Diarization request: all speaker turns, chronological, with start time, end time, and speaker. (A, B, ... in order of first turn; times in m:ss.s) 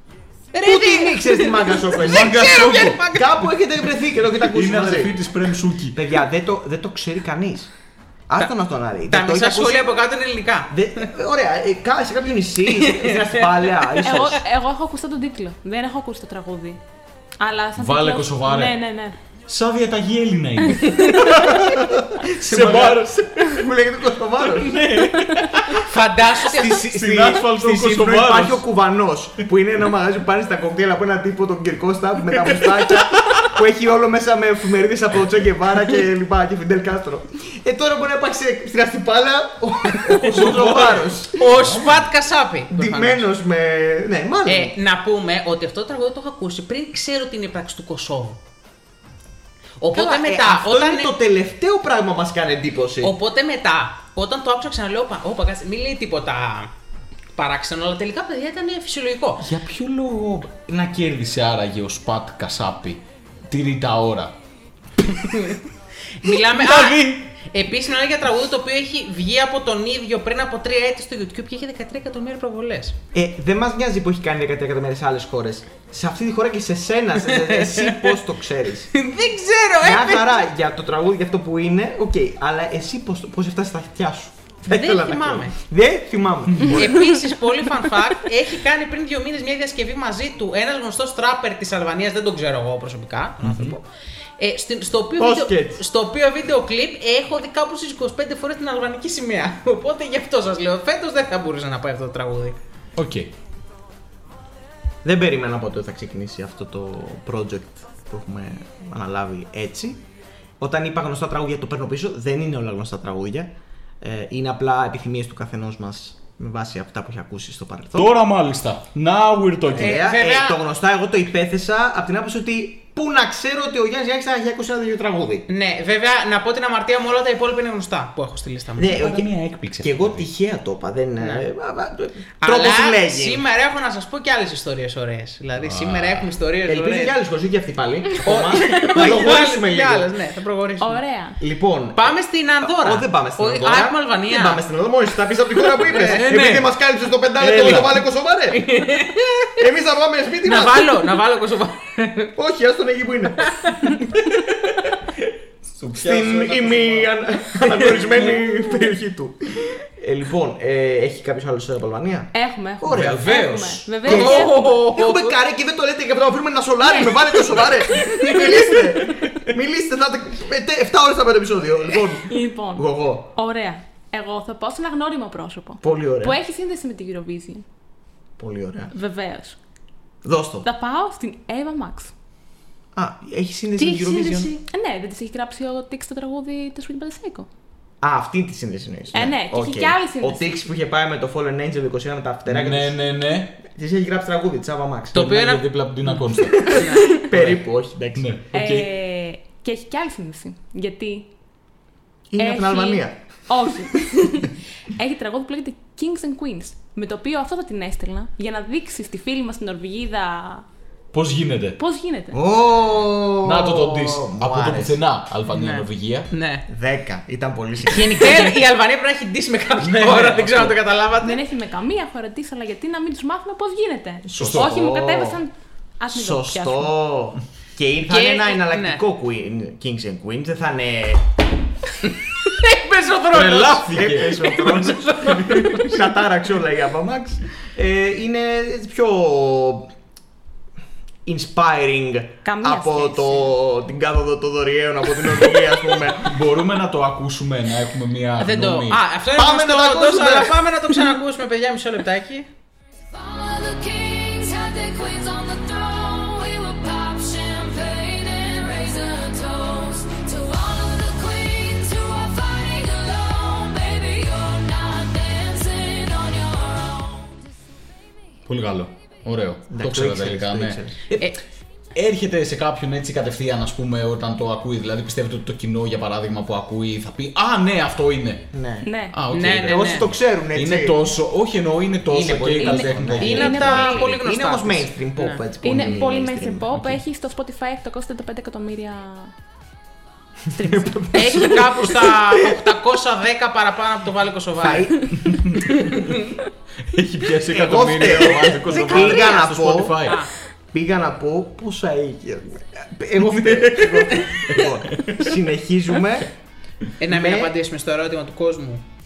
0:00.5-0:03.4 A
0:00.6-0:05.2 B
0:02.0-0:03.0 C
0:04.5-0:06.0 C
0:05.9-0:07.7 B
0:08.3-0:09.8 B
0:09.1-0:10.7 A
0:10.7-0:14.4 B
0:12.8-0:14.3 A
0:14.0-0:16.8 D
0:17.4-0:19.2 D
0:17.8-0:18.8 C
0:19.5-0:23.6 C
0:21.5-0:24.8 B
0:24.5-0:25.8 C
0:25.8-0:26.8 A
0:26.5-0:41.4 B
0:26.6-0:28.6 C
0:33.2-0:33.5 C
0:40.1-0:42.1 C
0:41.3-0:43.3 A
0:42.7-0:44.7 B
0:44.4-0:48.4 A
0:49.8-0:51.1 A
0:49.9-0:53.1 B
0:53.0-0:56.7 A
0:57.4-0:59.4 A
0:59.4-1:04.3 C
1:05.1-1:05.6 A
1:06.2-1:13.0 A
1:06.2-1:07.3 C
1:13.1-1:18.9 B
1:17.2-1:18.2 A
1:18.9-1:20.4 A
1:19.8-1:27.1 B
1:24.7-1:25.6 A
1:26.7-1:33.8 A
1:33.4-1:33.8 C
1:34.4-1:42.6 A
1:35.2-1:35.8 B
1:43.0-1:43.3 C
1:45.0-1:50.0 B
1:50.6-1:58.1 B
1:57.9-2:00.0 C
1:59.7-2:05.5 B
1:59.8-2:00.6 A
2:05.5-2:09.0 A
2:08.8-2:13.4 B
2:08.8-2:10.2 C
2:11.2-2:11.4 A
2:12.4-2:17.2 A
2:15.6-2:16.3 C
2:16.6-2:20.1 B
2:18.2-2:21.0 A
2:20.8-2:21.4 D
2:21.4-2:28.9 B
2:21.9-2:24.6 A
2:25.7-2:26.6 A
2:26.0-2:26.6 C
2:27.4-2:28.0 C
2:28.5-2:29.5 A
2:29.6-2:31.0 B
2:30.4-2:32.3 A
2:32.3-2:33.5 B
2:33.5-2:33.9 A
2:35.6-2:37.4 C
2:36.0-2:53.3 B
2:42.3-2:44.7 D
2:42.9-2:43.9 C
2:44.0-2:45.4 A
2:46.9-2:47.2 D
2:48.1-2:48.6 D
2:52.2-2:57.6 D
2:55.8-2:56.4 B
2:58.4-2:58.9 B
2:58.9-2:59.6 D
3:00.2-3:00.7 B
3:00.6-3:02.1 D
3:02.9-3:04.5 B
3:03.8-3:04.6 A
3:04.6-3:07.5 D
3:08.0-3:13.0 B
3:09.1-3:10.5 D
3:12.4-3:13.6 C
3:13.6-3:15.3 B
3:15.1-3:15.6 A
3:15.1-3:16.8 C
3:16.4-3:18.3 B
3:16.7-3:17.1 A
3:16.9-3:17.2 D
3:17.3-3:17.6 C
3:18.1-3:18.9 C
3:18.5-3:21.3 D
3:22.3-3:23.2 B
3:22.4-3:30.6 D
3:31.1-3:31.8 C
3:31.8-3:32.4 D
3:32.3-3:35.0 B
3:33.4-3:36.3 C
3:35.5-3:36.6 A
3:36.7-3:38.6 B
3:37.8-3:41.4 A
3:39.8-3:40.8 C
3:41.2-3:46.9 D
3:44.2-3:45.4 B
3:44.4-3:44.6 C
3:46.1-3:51.3 B
3:48.1-3:49.0 A
3:52.0-3:55.9 A
3:53.3-3:54.7 C
3:53.7-3:59.9 B
4:01.2-4:06.3 B
4:02.4-4:03.5 D
4:06.2-4:09.0 C
4:08.4-4:12.5 A
4:09.3-4:10.6 B
4:13.1-4:27.3 E
4:28.4-4:31.3 C
4:29.7-4:31.0 B
4:31.9-4:38.5 C
4:38.5-4:38.9 B
4:38.8-4:39.2 D
4:39.1-4:43.9 C
4:39.3-4:40.0 A
4:39.6-4:41.0 B
4:42.1-4:46.7 B
4:42.6-4:44.0 D
4:43.2-4:45.4 A
4:45.6-4:49.3 D
4:46.7-4:47.0 C
4:50.5-4:52.6 B
4:50.6-4:51.5 D
4:51.1-4:55.0 A
4:54.6-4:55.3 B
4:55.2-4:55.6 C
4:55.8-4:56.2 A
4:56.9-5:00.2 C
4:57.5-5:00.1 B
4:58.0-5:00.3 A
5:00.7-5:06.3 B
5:03.2-5:05.2 C
5:07.0-5:08.8 A
5:07.0-5:07.5 B